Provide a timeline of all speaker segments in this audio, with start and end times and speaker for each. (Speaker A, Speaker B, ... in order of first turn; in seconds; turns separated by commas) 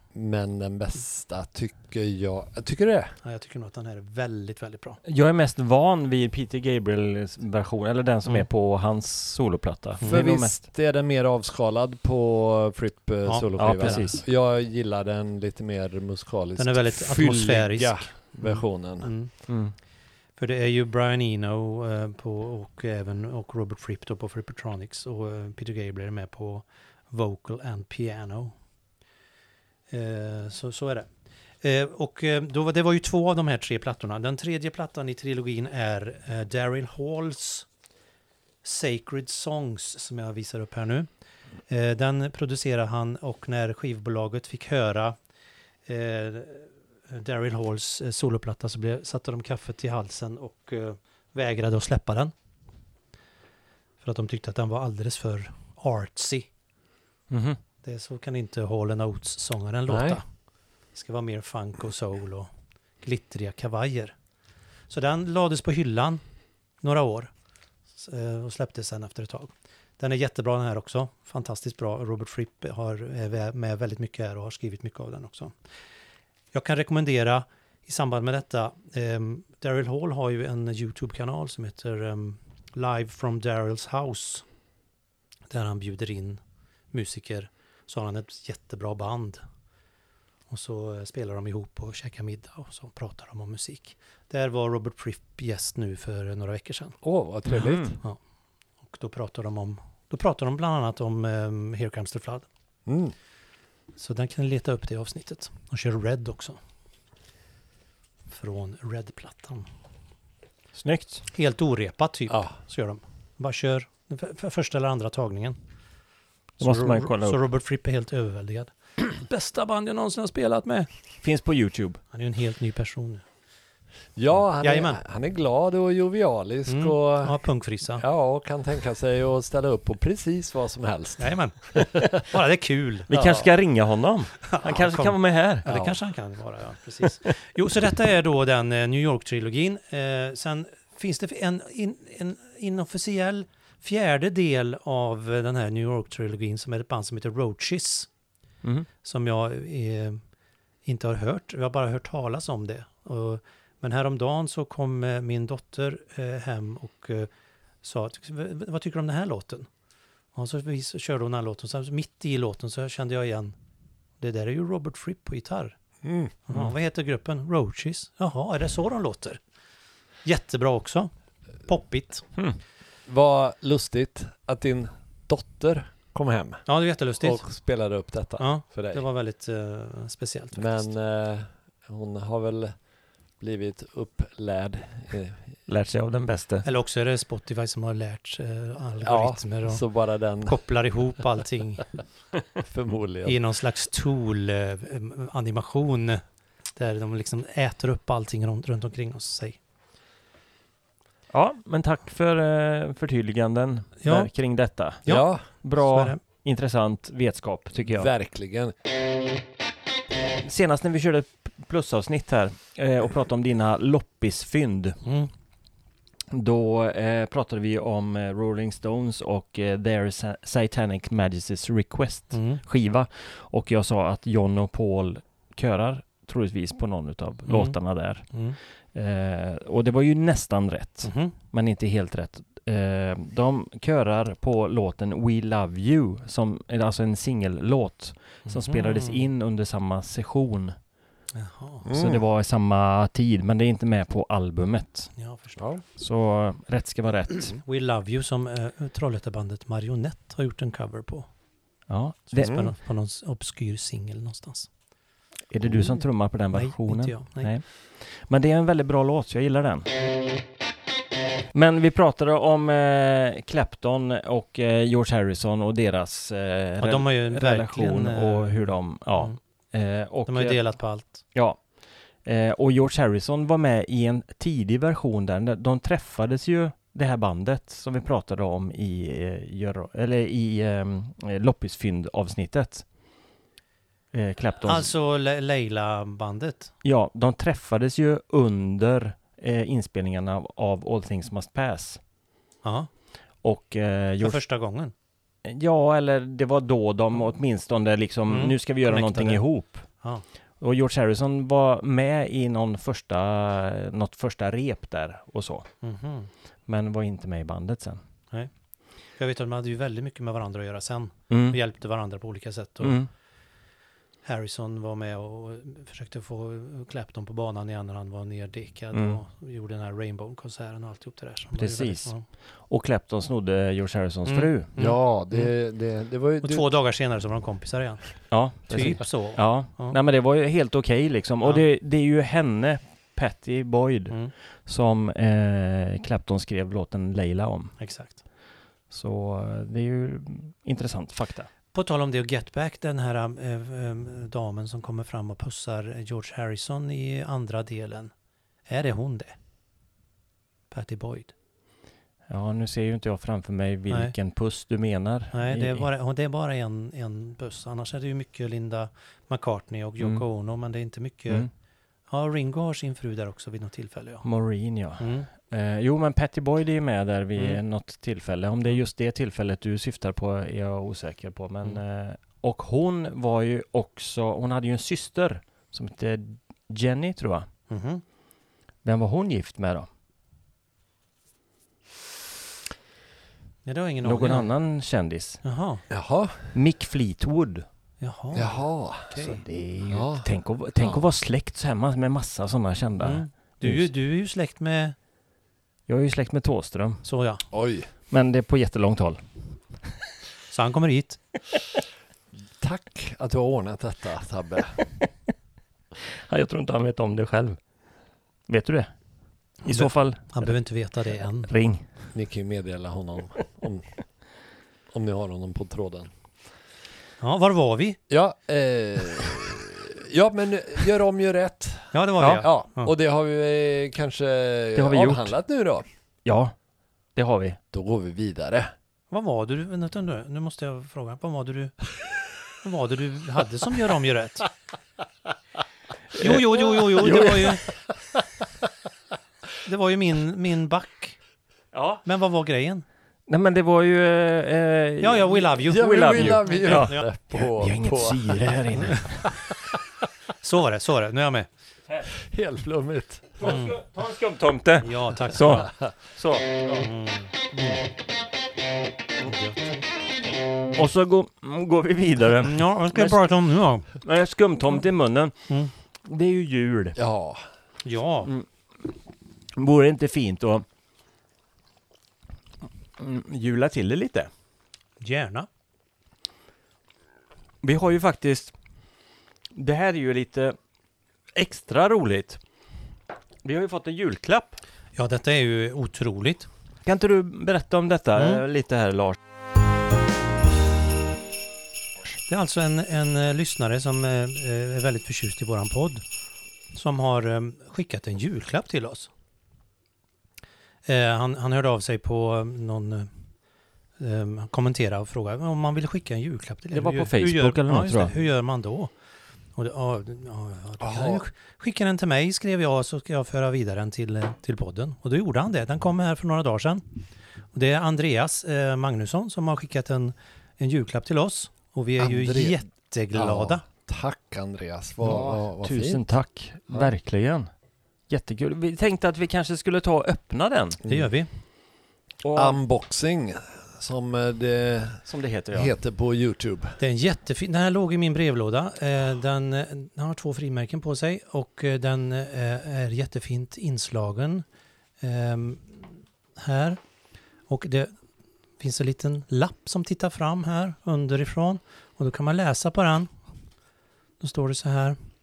Speaker A: 0.1-3.2, Speaker B: 3.2-5.0, Speaker C: 5.1-10.6, Speaker A: 10.1-19.1, Speaker B: 13.2-14.1, Speaker C: 13.6-14.2, Speaker B: 16.6-19.3, Speaker C: 19.5-19.7, Speaker B: 20.4-28.6, Speaker B: 29.9-31.1, Speaker B: 31.6-37.7, Speaker B: 38.6-41.1, Speaker B: 41.7-45.2, Speaker B: 45.9-52.3, Speaker B: 54.0-56.5, Speaker C: 57.3-57.6, Speaker B: 57.8-60.2, Speaker A: 59.9-60.2, Speaker B: 61.0-62.5, Speaker B: 63.0-64.2, Speaker B: 64.9-66.2, Speaker B: 66.8-67.3, Speaker B: 68.0-75.5, Speaker B: 76.5-84.5, Speaker B: 85.5-86.4, Speaker B: 86.9-89.4, Speaker B: 90.5-97.0, Speaker A: 97.0-98.0, Speaker C: 97.5-97.9, Speaker B: 98.8-102.5, Speaker A: 102.9-103.1, Speaker B: 104.0-106.6, Speaker B: 108.3-109.7, Speaker C: 110.8-111.2, Speaker B: 111.3-115.6, Speaker C: 116.6-117.4, Speaker B: 116.6-120.9, Speaker C: 121.2-122.0, Speaker B: 122.1-123.2, Speaker A: 124.2-127.4, Speaker B: 124.6-125.0, Speaker B: 126.7-128.0, Speaker A: 128.0-132.1, Speaker B: 131.2-133.1, Speaker A: 133.1-133.5, Speaker C: 133.1-135.7, Speaker B: 134.4-148.1, Speaker B: 149.0-150.2, Speaker B: 150.9-157.3, Speaker B: 157.8-159.7, Speaker B: 160.3-163.5, Speaker B: 164.2-165.8, Speaker A: 166.0-166.3, Speaker B: 166.5-169.4, Speaker B: 170.2-171.1, Speaker B: 171.7-172.2, Speaker A: 173.1-176.7, Speaker B: 176.7-177.4, Speaker A: 177.2-179.0, Speaker B: 178.4-180.9, Speaker A: 180.6-182.7, Speaker A: 183.4-185.4, Speaker C: 185.7-186.7, Speaker B: 186.6-189.8, Speaker A: 189.0-190.6, Speaker B: 190.4-191.9, Speaker A: 192.6-193.4, Speaker B: 193.2-196.2, Speaker B: 196.8-199.6, Speaker C: 201.3-208.1, Speaker B: 204.0-204.3, Speaker B: 205.0-206.2, Speaker A: 205.1-205.4, Speaker A: 207.9-208.7, Speaker C: 210.4-215.0, Speaker B: 215.0-215.3, Speaker C: 216.3-228.4, Speaker B: 222.3-222.6, Speaker B: 227.5-227.8, Speaker B: 228.3-228.6, Speaker C: 228.9-240.8, Speaker B: 231.0-231.3, Speaker B: 238.5-239.3, Speaker B: 241.3-241.8, Speaker A: 241.8-242.2, Speaker C: 241.9-245.1, Speaker B: 245.2-245.6, Speaker A: 245.6-245.8, Speaker C: 246.0-247.6, Speaker B: 247.6-251.3, Speaker C: 251.9-252.6, Speaker B: 252.3-254.7, Speaker C: 255.5-259.9, Speaker B: 256.5-257.5, Speaker C: 261.5-270.6, Speaker B: 266.8-269.4, Speaker B: 270.3-271.2, Speaker C: 271.3-271.6, Speaker C: 272.2-282.9, Speaker C: 284.1-284.9, Speaker B: 284.6-286.7, Speaker C: 286.8-292.0, Speaker B: 292.6-292.9, Speaker C: 293.4-294.4, Speaker B: 294.2-294.9, Speaker C: 295.4-299.9, Speaker B: 298.3-299.4, Speaker C: 300.6-305.7, Speaker B: 305.8-306.3, Speaker C: 306.7-308.0, Speaker B: 309.2-313.0, Speaker C: 311.3-311.6, Speaker C: 312.8-313.1, Speaker B: 314.2-322.2, Speaker C: 318.9-319.2, Speaker C: 321.6-324.7, Speaker B: 324.3-325.5, Speaker A: 324.8-326.7, Speaker B: 326.4-330.0, Speaker C: 328.3-337.8, Speaker B: 337.8-338.2, Speaker C: 338.9-341.5, Speaker B: 341.7-348.1, Speaker B: 348.7-349.3, Speaker B: 350.7-351.3, Speaker C: 352.3-355.9, Speaker B: 355.3-361.5, Speaker C: 360.0-360.2, Speaker B: 362.1-364.2, Speaker C: 364.2-377.5, Speaker B: 365.0-365.3, Speaker B: 377.7-378.0, Speaker C: 378.8-379.9, Speaker B: 383.6-384.5, Speaker C: 384.0-385.4, Speaker B: 385.4-385.8, Speaker A: 385.9-386.5, Speaker C: 386.5-387.6, Speaker B: 388.0-388.6, Speaker A: 388.3-389.3, Speaker B: 389.1-389.4, Speaker C: 389.2-393.9, Speaker A: 389.9-390.3, Speaker B: 393.0-394.9, Speaker C: 395.9-397.0, Speaker B: 397.0-397.4, Speaker A: 397.5-397.9, Speaker C: 398.1-399.2, Speaker B: 400.5-401.2, Speaker A: 402.6-404.8, Speaker C: 406.3-407.6, Speaker C: 408.5-408.9, Speaker C: 409.7-410.5, Speaker B: 409.7-411.5, Speaker C: 411.5-411.9, Speaker A: 412.1-413.9, Speaker A: 414.9-416.1, Speaker B: 417.2-418.0, Speaker A: 418.1-425.9, Speaker B: 421.9-422.9, Speaker C: 424.8-425.3, Speaker C: 426.2-426.5, Speaker C: 427.2-427.6, Speaker A: 427.7-428.7, Speaker B: 429.1-431.8, Speaker B: 432.6-434.5, Speaker C: 436.2-437.6, Speaker B: 436.2-437.6, Speaker B: 439.6-441.2, Speaker C: 441.7-442.0, Speaker B: 442.1-442.9, Speaker C: 443.3-449.2, Speaker B: 445.0-447.1, Speaker A: 445.7-448.4, Speaker B: 450.4-451.5, Speaker A: 452.1-453.4, Speaker C: 453.4-456.8, Speaker B: 453.4-453.8, Speaker B: 454.8-455.7, Speaker B: 456.8-457.3, Speaker B: 459.2-459.8, Speaker C: 460.8-463.2, Speaker B: 462.4-463.9, Speaker C: 463.9-465.4, Speaker C: 466.1-467.0, Speaker A: 467.0-467.4, Speaker B: 467.8-468.3, Speaker C: 469.6-470.6, Speaker C: 473.0-474.3, Speaker B: 475.0-475.5, Speaker C: 477.6-478.5, Speaker C: 479.6-480.6, Speaker C: 481.4-482.4, Speaker C: 483.4-484.6, Speaker B: 485.0-486.5, Speaker C: 486.9-489.2, Speaker B: 488.2-488.4, Speaker B: 492.3-496.0, Speaker B: 496.7-499.1, Speaker B: 500.9-503.1, Speaker B: 504.0-508.9, Speaker C: 506.7-508.1, Speaker B: 509.6-516.8, Speaker A: 510.8-511.2, Speaker B: 517.5-523.6, Speaker A: 522.0-522.6, Speaker A: 523.1-526.1, Speaker C: 525.0-527.5, Speaker C: 528.1-530.8, Speaker A: 530.8-531.1, Speaker B: 530.9-531.3, Speaker C: 532.2-532.6, Speaker A: 532.4-536.8, Speaker C: 535.1-535.7, Speaker B: 536.8-544.5, Speaker B: 545.0-545.9, Speaker B: 546.4-546.8, Speaker B: 547.5-547.9, Speaker B: 548.6-553.1, Speaker B: 554.2-555.0